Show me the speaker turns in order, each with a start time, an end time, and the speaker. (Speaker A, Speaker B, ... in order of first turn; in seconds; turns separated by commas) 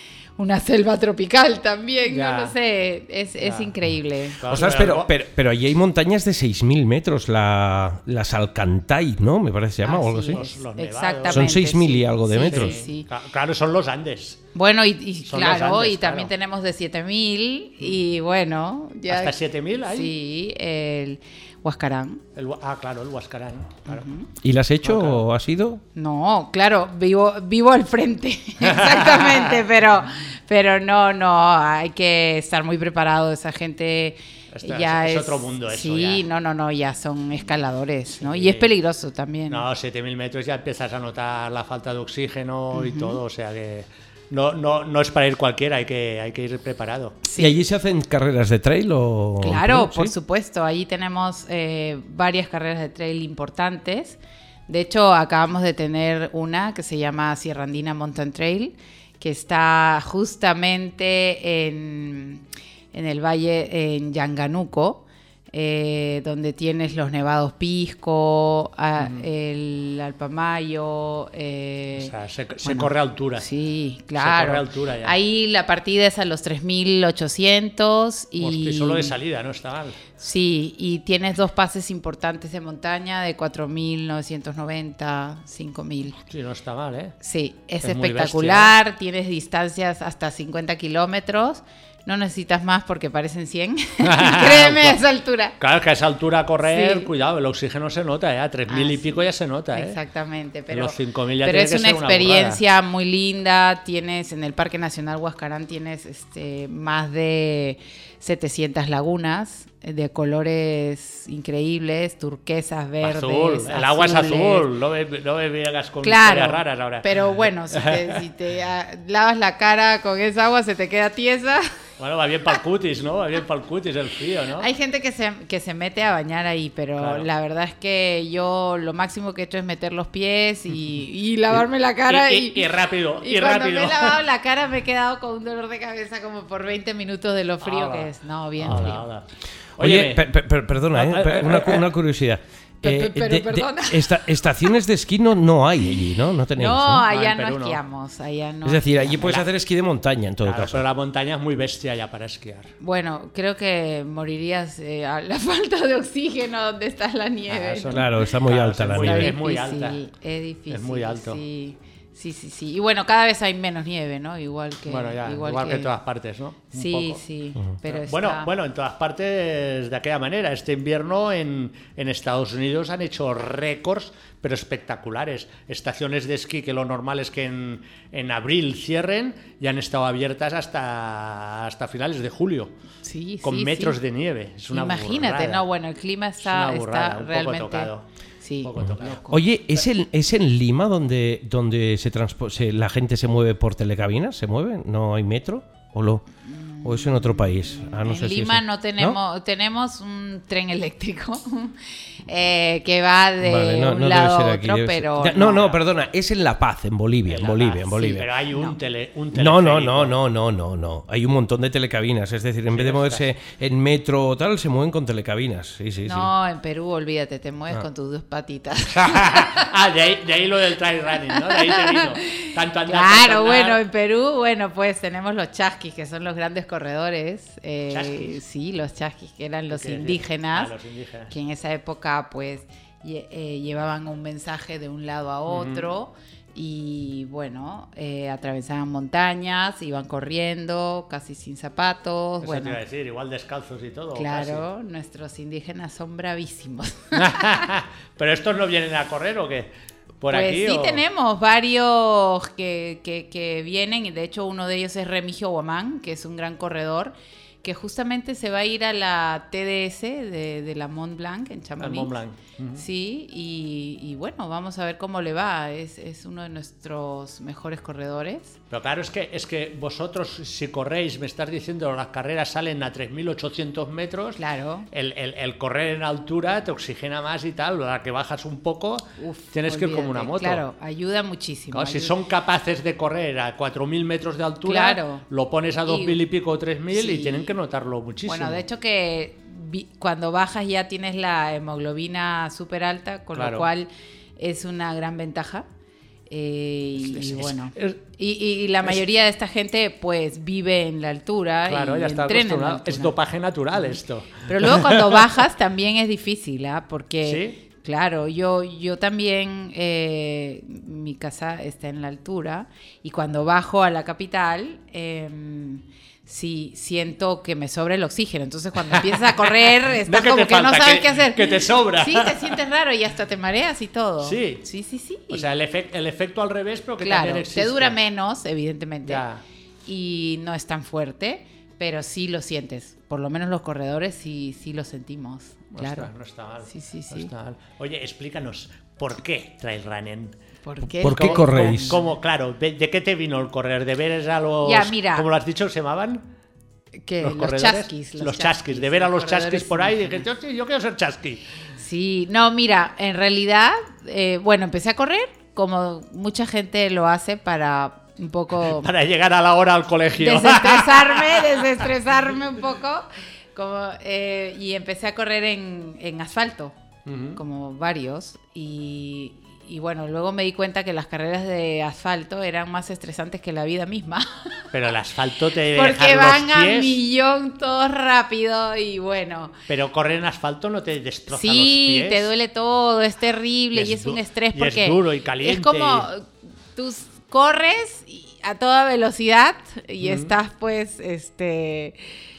Speaker A: 0.4-4.7, Speaker B: 2.1-2.5, Speaker B: 3.4-3.7, Speaker B: 4.4-5.1, Speaker C: 4.5-10.4, Speaker A: 9.8-13.1, Speaker B: 10.3-11.6, Speaker C: 11.3-12.8, Speaker B: 12.5-14.4, Speaker A: 14.6-22.2, Speaker B: 15.3-16.3, Speaker B: 19.1-20.1, Speaker B: 22.4-24.0, Speaker A: 23.9-24.3, Speaker C: 24.4-25.8, Speaker B: 24.8-25.2, Speaker A: 25.9-39.7, Speaker B: 28.6-29.6, Speaker B: 34.5-36.2, Speaker B: 38.1-38.7, Speaker B: 39.5-47.2, Speaker A: 42.7-43.2, Speaker A: 47.2-47.6, Speaker C: 47.4-50.1, Speaker A: 49.4-79.2, Speaker B: 69.0-69.3, Speaker B: 72.0-73.5, Speaker B: 74.2-75.2, Speaker B: 78.4-80.0, Speaker A: 80.2-86.2, Speaker B: 86.3-87.2, Speaker A: 87.2-95.6, Speaker B: 87.8-88.7, Speaker B: 94.0-95.0, Speaker B: 95.6-100.0, Speaker A: 96.6-97.1, Speaker A: 98.7-114.7, Speaker B: 100.7-102.6, Speaker B: 113.0-117.2, Speaker A: 116.0-121.7, Speaker B: 117.7-118.2, Speaker B: 122.0-124.7, Speaker A: 124.6-132.7, Speaker B: 127.0-127.2, Speaker B: 132.1-134.2, Speaker A: 133.2-139.1, Speaker B: 137.6-139.2, Speaker B: 139.8-140.3, Speaker C: 139.8-147.0, Speaker B: 140.9-141.9, Speaker A: 142.8-144.3, Speaker A: 146.6-149.3, Speaker B: 147.1-147.8, Speaker C: 148.7-150.8, Speaker B: 149.2-149.5, Speaker B: 150.4-152.7, Speaker A: 152.8-158.1, Speaker B: 157.5-160.0, Speaker C: 157.9-159.3, Speaker A: 159.0-165.9, Speaker B: 160.7-161.4, Speaker B: 164.9-167.2, Speaker A: 166.7-168.5, Speaker B: 167.8-182.7, Speaker A: 183.0-184.0, Speaker B: 183.4-185.7, Speaker A: 184.7-187.9, Speaker B: 186.4-188.0, Speaker A: 188.4-189.4, Speaker B: 188.6-189.2, Speaker C: 188.8-196.2, Speaker A: 196.4-205.7, Speaker C: 196.8-199.2, Speaker C: 203.4-208.3, Speaker B: 205.4-205.8, Speaker B: 207.3-210.2, Speaker C: 209.3-216.3, Speaker B: 212.7-213.3, Speaker A: 216.1-219.7, Speaker B: 218.9-223.8, Speaker A: 221.4-230.7, Speaker B: 227.9-228.3, Speaker B: 229.7-231.3, Speaker A: 231.3-242.8, Speaker B: 235.5-235.9, Speaker B: 242.4-244.7, Speaker A: 244.2-247.7, Speaker B: 247.1-251.0, Speaker A: 250.3-262.1, Speaker B: 261.8-262.8, Speaker A: 262.8-268.6, Speaker B: 268.7-274.4, Speaker A: 274.4-274.9, Speaker B: 274.9-280.6, Speaker A: 279.2-282.1, Speaker B: 281.7-288.6, Speaker A: 284.6-285.2, Speaker A: 285.9-286.2, Speaker A: 286.9-287.5, Speaker A: 288.2-295.7, Speaker B: 293.4-293.7, Speaker A: 296.3-303.1, Speaker B: 297.0-298.0, Speaker B: 301.7-305.2, Speaker A: 303.7-325.5, Speaker B: 307.2-307.6, Speaker B: 318.9-322.6, Speaker B: 324.2-324.6, Speaker B: 325.3-328.0, Speaker A: 327.0-329.2, Speaker B: 329.1-329.4, Speaker A: 329.9-336.1, Speaker B: 335.7-340.4, Speaker A: 336.7-337.3, Speaker A: 340.6-342.0, Speaker C: 341.0-342.0, Speaker B: 341.1-346.2, Speaker A: 344.6-345.3, Speaker A: 347.0-350.3, Speaker B: 347.2-351.4, Speaker A: 351.8-358.9, Speaker B: 358.6-361.9, Speaker A: 360.2-366.7, Speaker B: 367.1-367.4, Speaker A: 367.4-374.6, Speaker B: 374.7-377.0, Speaker A: 375.7-379.5, Speaker B: 379.7-382.3, Speaker A: 381.3-392.0, Speaker B: 383.7-386.1, Speaker B: 390.0-390.3